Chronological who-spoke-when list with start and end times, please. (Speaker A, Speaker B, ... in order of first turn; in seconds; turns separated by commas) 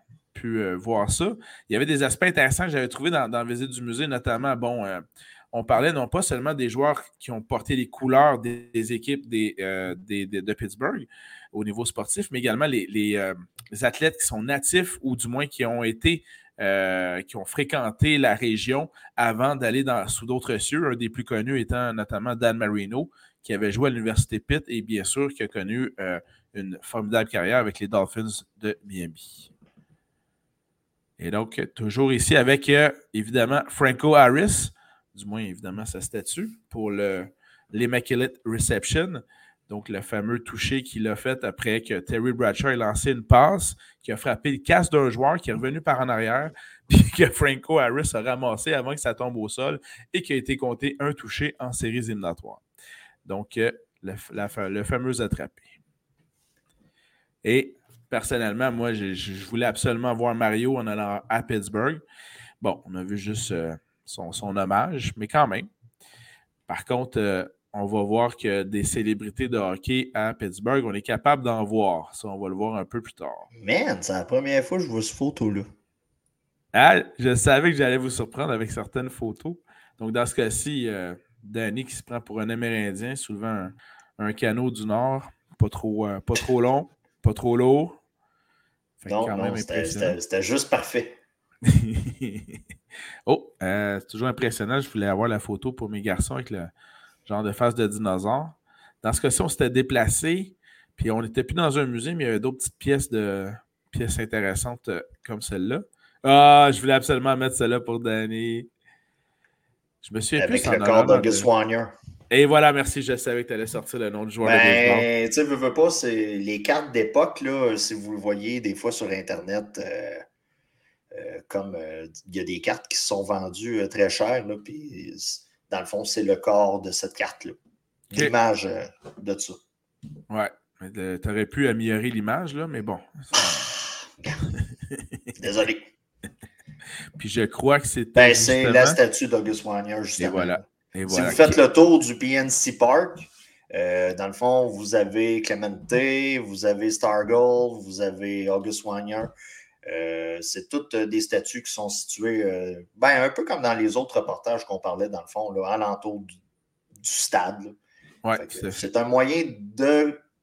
Speaker A: 0.3-29.5, Speaker A: 31.2-52.6, Speaker A: 53.2-55.7, Speaker A: 57.4-62.0, Speaker A: 62.6-65.7, Speaker A: 66.7-73.5, Speaker B: 73.5-75.7, Speaker A: 76.7-88.0, Speaker A: 89.0-90.2, Speaker B: 89.0-91.2, Speaker A: 91.6-92.6, Speaker A: 93.2-96.7, Speaker A: 97.2-108.7, Speaker A: 110.0-111.5, Speaker B: 110.4-112.0, Speaker A: 112.3-115.1, Speaker B: 114.4-120.2, Speaker B: 121.1-127.6, Speaker B: 128.1-129.6, Speaker A: 130.3-133.7, Speaker B: 133.7-134.4, Speaker B: 135.4-135.9, Speaker A: 137.2-139.0, Speaker B: 138.2-149.3, Speaker A: 140.2-141.6, Speaker B: 149.8-156.3, Speaker B: 157.0-157.8, Speaker A: 158.2-158.8, Speaker B: 158.3-160.2